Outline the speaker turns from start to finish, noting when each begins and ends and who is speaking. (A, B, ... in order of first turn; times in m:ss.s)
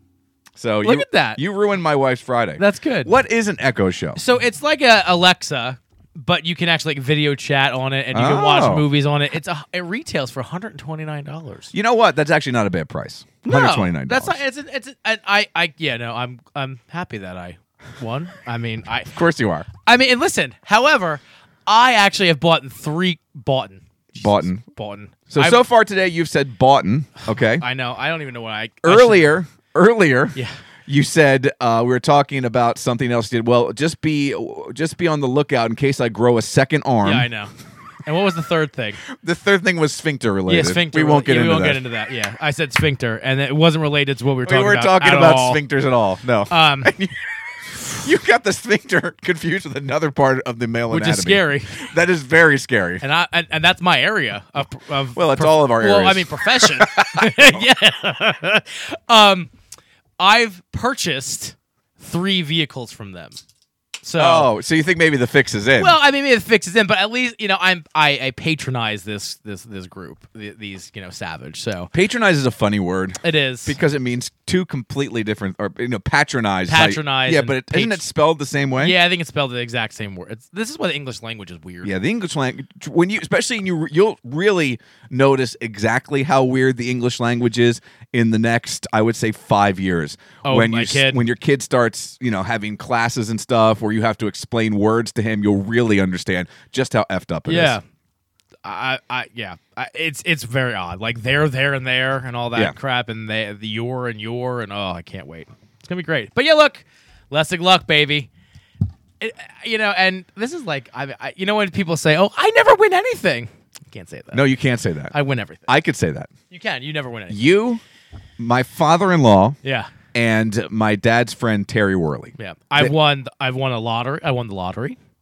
0:00.6-0:04.2 A
0:00.8-0:01.4 B
0:02.6-0:03.1 B
0:04.2-0:11.7 B
0:08.1-0:08.8 A
0:11.7-0:14.4 A
0:13.4-0:19.2 B
0:19.1-0:19.7 A
0:19.8-0:25.6 B
0:24.2-0:24.6 A
0:25.3-0:27.6 A
0:27.6-0:29.3 B
0:28.8-0:37.3 A
0:37.0-0:37.5 B
0:38.0-0:39.0 B
0:39.2-0:41.8 A
0:40.4-0:45.6 B
0:44.4-0:47.1 A
0:46.5-0:46.9 B
0:47.9-0:53.0 A
0:50.9-0:51.9 B
0:53.0-0:59.5 B
0:55.2-0:57.6 A
1:00.2-1:03.4 B
1:04.0-1:04.5 B
1:04.2-1:05.9 A
1:05.8-1:11.9 B
1:11.9-1:18.9 A
1:13.2-1:13.7 B
1:16.7-1:18.0 B
1:18.8-1:21.9 B
1:21.8-1:37.8 A
1:30.4-1:31.2 B
1:37.5-1:37.8 B
1:38.6-1:48.3 B
1:49.2-1:54.4 B
1:54.3-1:55.1 A
1:55.1-1:55.7 B
1:55.7-1:56.3 A
1:56.5-1:57.5 B
1:57.3-1:57.8 A
1:58.4-1:59.6 A
1:59.6-1:59.9 B
2:00.1-2:02.9 A
2:02.4-2:05.0 B